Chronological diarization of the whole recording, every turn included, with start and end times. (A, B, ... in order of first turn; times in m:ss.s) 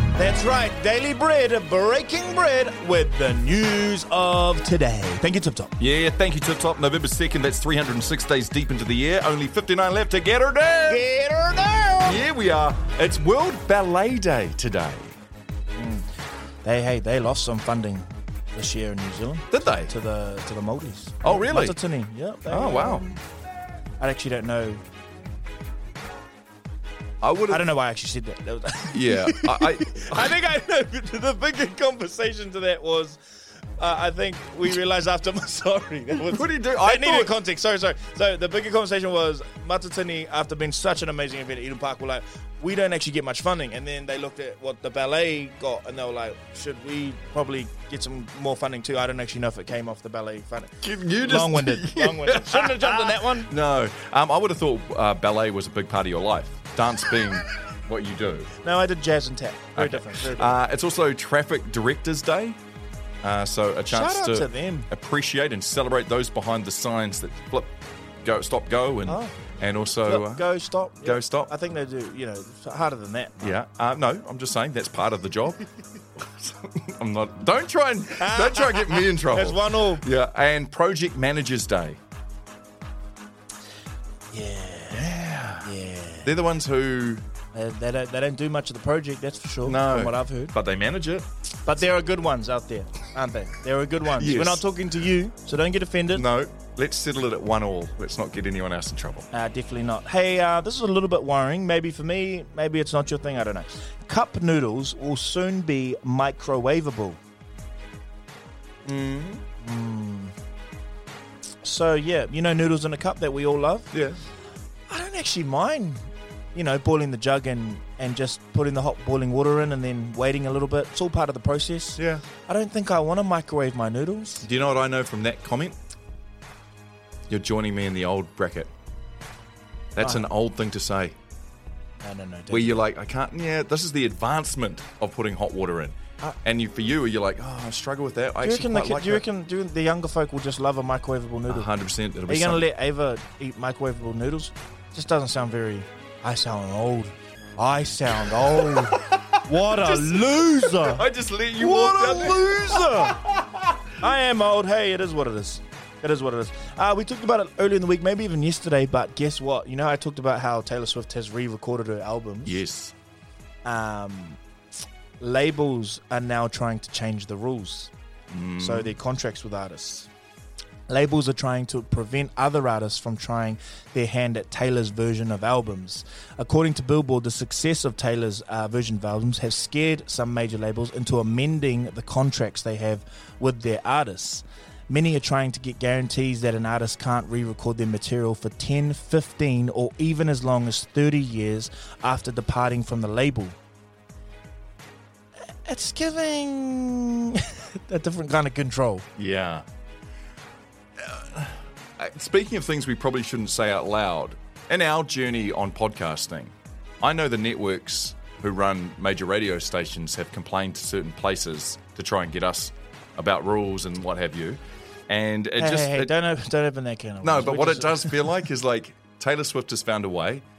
0:00.2-0:05.7 A
0:05.8-0:11.0 B
0:10.9-0:12.2 A
0:12.0-0:15.1 B
0:15.8-0:16.1 A
0:16.6-0:23.2 A
0:19.5-0:19.9 B
0:21.2-0:21.8 B
0:22.5-0:23.0 B
0:24.0-0:24.8 A
0:27.2-0:27.7 B
0:27.5-0:33.2 A
0:28.9-0:30.4 B
0:33.8-0:53.5 A
0:36.3-0:37.3 B
0:50.8-0:58.5 B
0:58.6-1:00.6 A
0:59.8-1:02.6 B
1:03.2-1:11.5 B
1:03.9-1:04.9 A
1:09.1-1:09.3 A
1:10.0-1:13.6 A
1:13.4-1:15.6 B
1:16.2-1:22.0 B
1:18.2-1:20.0 A
1:24.3-1:26.3 A
1:24.9-1:25.7 B
1:26.2-1:27.2 B
1:27.5-1:30.5 A
1:29.6-1:31.3 B
1:31.6-1:36.2 A
1:34.2-1:34.6 B
1:36.1-1:39.3 B
1:39.3-1:47.2 A
1:48.8-1:49.4 B
1:49.6-1:50.3 A
1:51.6-1:53.9 A
1:53.9-1:54.2 B
1:54.9-2:04.4 A
2:02.0-2:02.2 B
2:04.4-2:05.8 B
2:07.3-2:08.7 B
2:09.9-2:11.2 B
2:10.0-2:10.2 A
2:12.0-2:12.8 A
2:12.5-2:19.2 B
2:18.4-2:21.7 A
2:21.5-2:22.7 B
2:22.3-2:31.0 A
2:28.4-2:33.9 B
2:31.6-2:33.2 A
2:34.0-2:42.6 A
2:42.4-2:42.9 B
2:43.6-2:44.4 A
2:45.2-2:47.9 A
2:48.3-2:48.9 B
2:48.6-2:50.1 A
2:50.9-3:13.6 A
3:15.6-3:19.1 A
3:19.2-3:19.6 B
3:21.0-3:36.1 B
3:35.6-3:38.3 A
3:37.2-3:40.4 B